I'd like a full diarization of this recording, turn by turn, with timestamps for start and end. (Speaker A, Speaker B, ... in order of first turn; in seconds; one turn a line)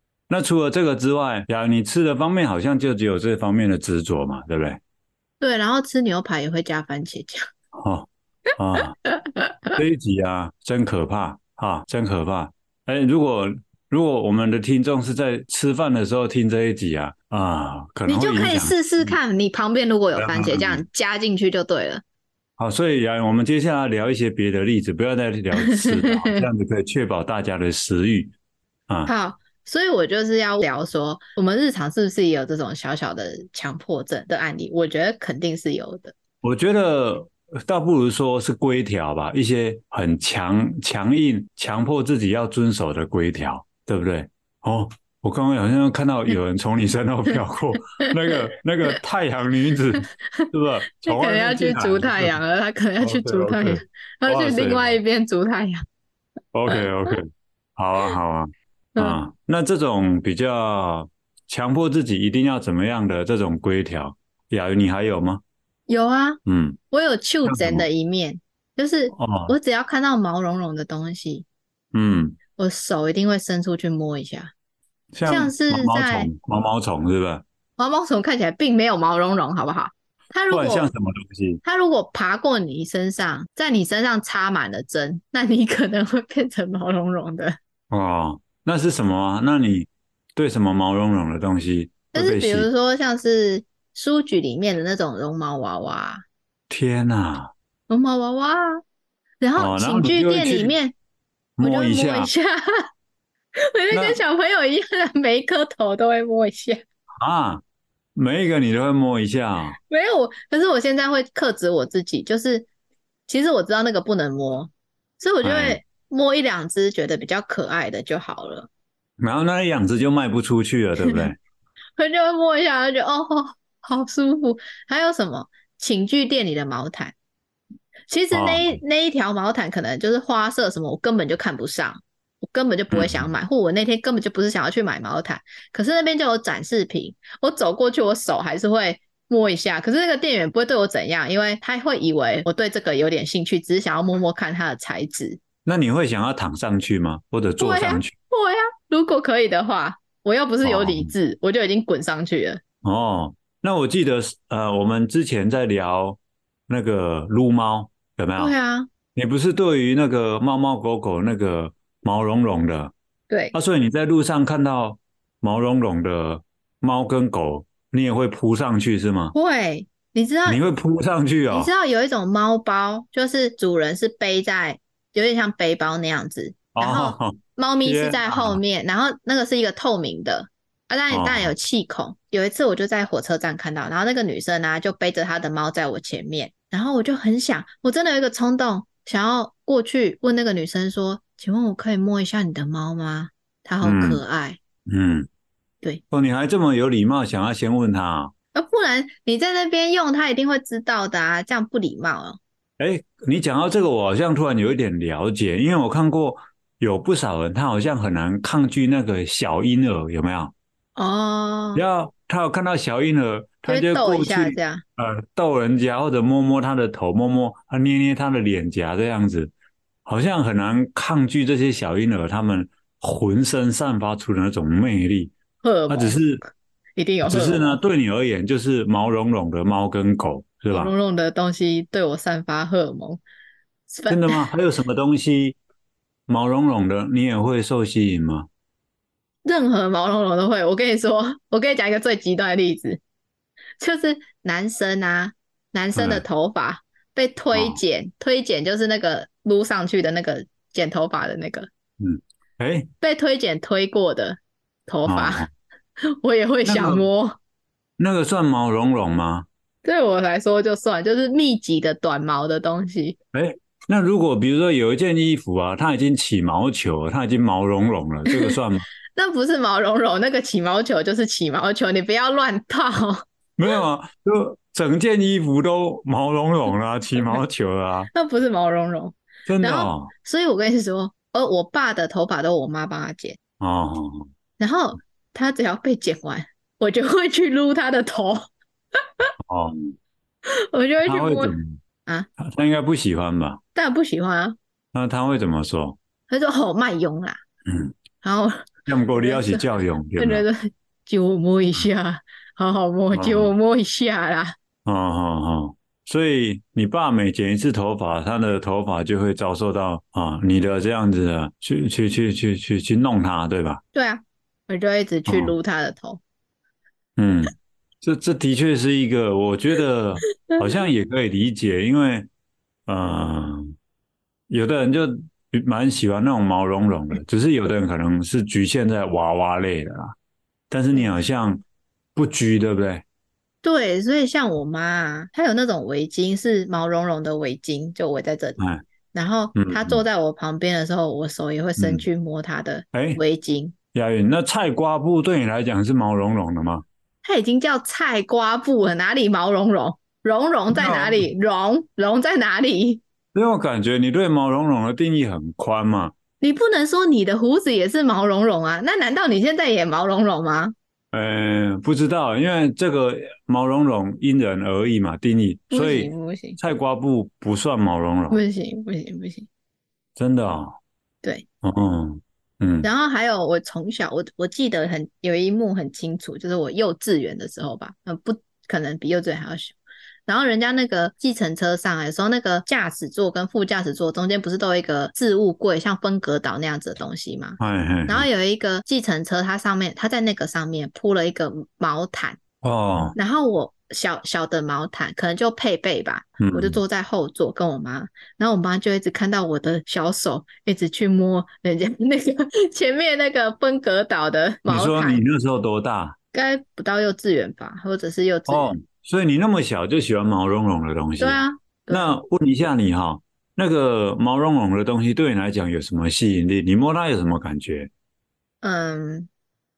Speaker A: 0.3-4.8
Speaker B: 5.4-7.5
Speaker A: 7.7-8.9
Speaker B: 9.1-9.8
Speaker A: 9.8-19.2
Speaker B: 18.1-22.0
Speaker A: 20.1-20.8
Speaker A: 22.6-28.3
Speaker B: 25.5-26.4
Speaker B: 29.1-36.1
Speaker A: 36.4-52.4
Speaker B: 48.0-48.5
Speaker B: 50.3-55.8
Speaker A: 53.0-55.0
Speaker A: 56.5-65.4
Speaker B: 56.7-57.1
Speaker B: 65.9-66.4
Speaker A: 66.5-66.8
Speaker B: 66.9-71.5
Speaker A: 67.4-67.9
Speaker A: 69.1-69.5
Speaker A: 71.9-72.4
Speaker B: 72.5-74.5
Speaker A: 75.1-77.4
Speaker B: 75.2-76.3
Speaker B: 77.8-80.9
Speaker A: 80.5-81.6
Speaker B: 81.6-87.6
Speaker A: 87.9-92.7
Speaker B: 92.1-96.2
Speaker A: 96.7-97.5
Speaker B: 97.9-98.8
Speaker B: 99.4-100.9
Speaker A: 99.5-100.8
Speaker A: 101.6-102.3
Speaker B: 101.6-102.8
Speaker B: 103.6-106.8
Speaker A: 103.9-104.2
Speaker A: 107.2-107.6
Speaker A: 108.2-109.8
Speaker B: 109.9-112.7
Speaker B: 113.3-118.7
Speaker A: 115.4-115.8
Speaker A: 119.2-121.4
Speaker B: 122.0-127.1
Speaker B: 128.1-145.4
Speaker A: 128.3-128.8
Speaker A: 132.9-133.3
Speaker A: 145.6-148.1
Speaker B: 147.6-152.6
Speaker A: 150.6-151.1
Speaker A: 152.8-158.5
Speaker B: 158.4-158.9
Speaker A: 159.1-162.9
Speaker B: 163.3-163.5
Speaker A: 163.5-169.3
Speaker B: 169.3-170.6
Speaker A: 170.4-171.7
Speaker B: 171.5-194.6
Speaker A: 176.7-178.6
Speaker A: 181.1-181.5
Speaker A: 193.8-194.2
Speaker A: 194.8-195.3
Speaker A: 196.1-198.3
Speaker B: 198.5-202.4
Speaker A: 202.8-210.5
Speaker B: 210.9-211.8
Speaker A: 211.7-219.5
Speaker B: 213.7-214.8
Speaker A: 220.1-225.3
Speaker B: 225.6-226.2
Speaker A: 225.9-226.4
Speaker B: 227.0-227.8
Speaker A: 227.2-230.9
Speaker B: 230.7-233.2
Speaker B: 233.9-234.5
Speaker A: 234.1-235.6
Speaker A: 236.3-238.5
Speaker B: 239.4-243.0
Speaker B: 243.8-251.7
Speaker A: 245.9-246.2
Speaker A: 247.5-247.8
Speaker A: 252.0-252.9
Speaker B: 253.0-255.5
Speaker A: 255.1-255.5
Speaker B: 256.1-257.4
Speaker A: 256.6-257.1
Speaker A: 258.0-259.5
Speaker B: 259.8-263.2
Speaker A: 263.3-268.9
Speaker B: 268.3-268.6
Speaker B: 269.1-273.2
Speaker A: 273.6-278.1
Speaker B: 278.1-283.4
Speaker A: 279.5-280.1
Speaker A: 283.6-284.3
Speaker B: 284.6-288.5
Speaker A: 289.5-289.9
Speaker B: 290.4-292.3
Speaker A: 291.0-291.8
Speaker A: 292.4-293.6
Speaker B: 293.7-294.6
Speaker A: 294.9-296.0
Speaker B: 296.3-297.4
Speaker A: 297.6-297.9
Speaker B: 298.2-299.6
Speaker A: 298.9-300.4
Speaker B: 300.2-304.5
Speaker A: 303.1-303.5
Speaker A: 304.8-313.8
Speaker B: 313.9-316.2
Speaker A: 315.3-315.5
Speaker A: 317.2-322.3
Speaker A: 322.9-323.7
Speaker A: 324.5-330.1
Speaker A: 330.7-331.6
Speaker A: 332.1-333.0
Speaker B: 333.6-338.6
Speaker A: 338.6-338.8
Speaker B: 339.1-343.7
Speaker A: 339.5-340.0
Speaker A: 341.8-342.0
Speaker A: 342.9-343.2
Speaker A: 343.9-346.8
Speaker B: 347.2-353.0
Speaker A: 350.7-351.2
Speaker A: 353.3-356.1
Speaker B: 356.4-360.7
Speaker A: 361.1-368.4
Speaker B: 365.7-366.6
Speaker B: 368.3-369.5
Speaker A: 370.2-370.8
Speaker A: 371.6-372.9
Speaker B: 372.8-392.4
Speaker A: 387.6-388.3
Speaker A: 392.6-393.1
Speaker B: 393.1-405.2
Speaker A: 396.4-396.8
Speaker A: 404.7-406.1
Speaker B: 406.3-408.7
Speaker A: 408.5-417.9
Speaker B: 411.2-412.1
Speaker B: 418.6-419.3